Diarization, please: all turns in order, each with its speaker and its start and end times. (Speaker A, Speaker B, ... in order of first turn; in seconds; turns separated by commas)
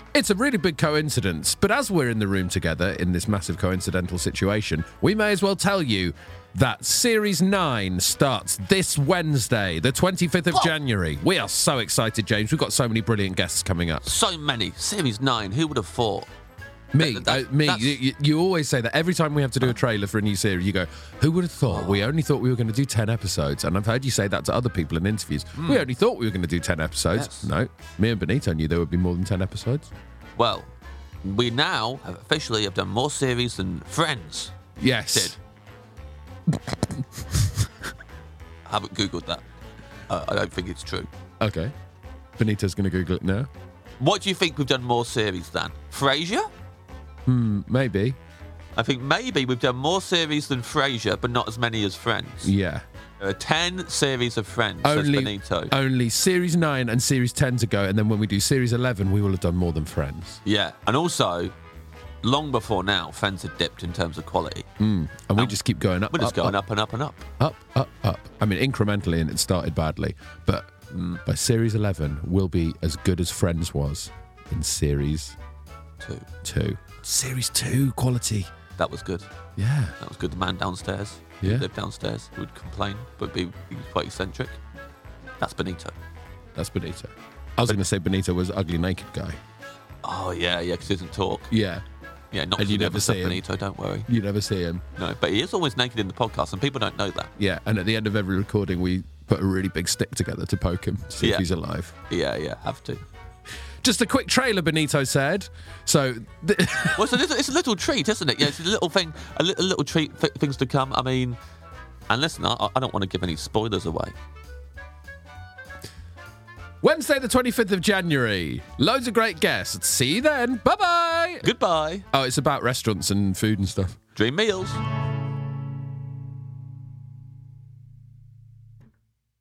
Speaker A: 0.1-14.0, Speaker B: 14.0-16.3, Speaker A: 16.9-29.9, Speaker B: 17.0-18.0, Speaker B: 21.7-22.1, Speaker B: 25.6-25.9, Speaker B: 27.1-27.5, Speaker B: 30.4-30.7, Speaker B: 31.2-35.4, Speaker A: 34.8-35.4, Speaker A: 36.6-37.4, Speaker B: 38.6-39.4, Speaker B: 40.1-41.1, Speaker A: 41.4-41.7, Speaker A: 42.4-43.5, Speaker B: 44.0-46.5, Speaker A: 47.3-48.2, Speaker B: 48.8-52.5, Speaker A: 52.4-52.8, Speaker B: 53.2-55.7, Speaker A: 54.8-60.4, Speaker B: 60.4-61.5, Speaker B: 62.2-64.7, Speaker A: 64.8-66.5, Speaker B: 65.3-65.6, Speaker B: 66.1-67.3, Speaker A: 67.4-70.7, Speaker B: 70.9-71.2, Speaker A: 71.2-75.3, Speaker B: 76.0-76.3, Speaker A: 76.4-78.5, Speaker B: 78.8-79.3, Speaker A: 79.6-79.9, Speaker B: 80.0-84.6, Speaker B: 85.4-85.9, Speaker A: 86.5-89.3, Speaker B: 90.0-91.5, Speaker A: 91.5-91.8, Speaker B: 92.3-94.1, Speaker A: 92.6-93.4, Speaker A: 94.1-94.8, Speaker B: 95.0-97.3, Speaker A: 97.4-101.9, Speaker B: 101.2-101.5, Speaker B: 102.1-103.0, Speaker A: 103.8-107.2, Speaker B: 106.9-111.4, Speaker B: 112.1-114.1, Speaker A: 116.8-121.4, Speaker B: 121.4-122.0, Speaker A: 122.1-124.0, Speaker B: 124.1-124.8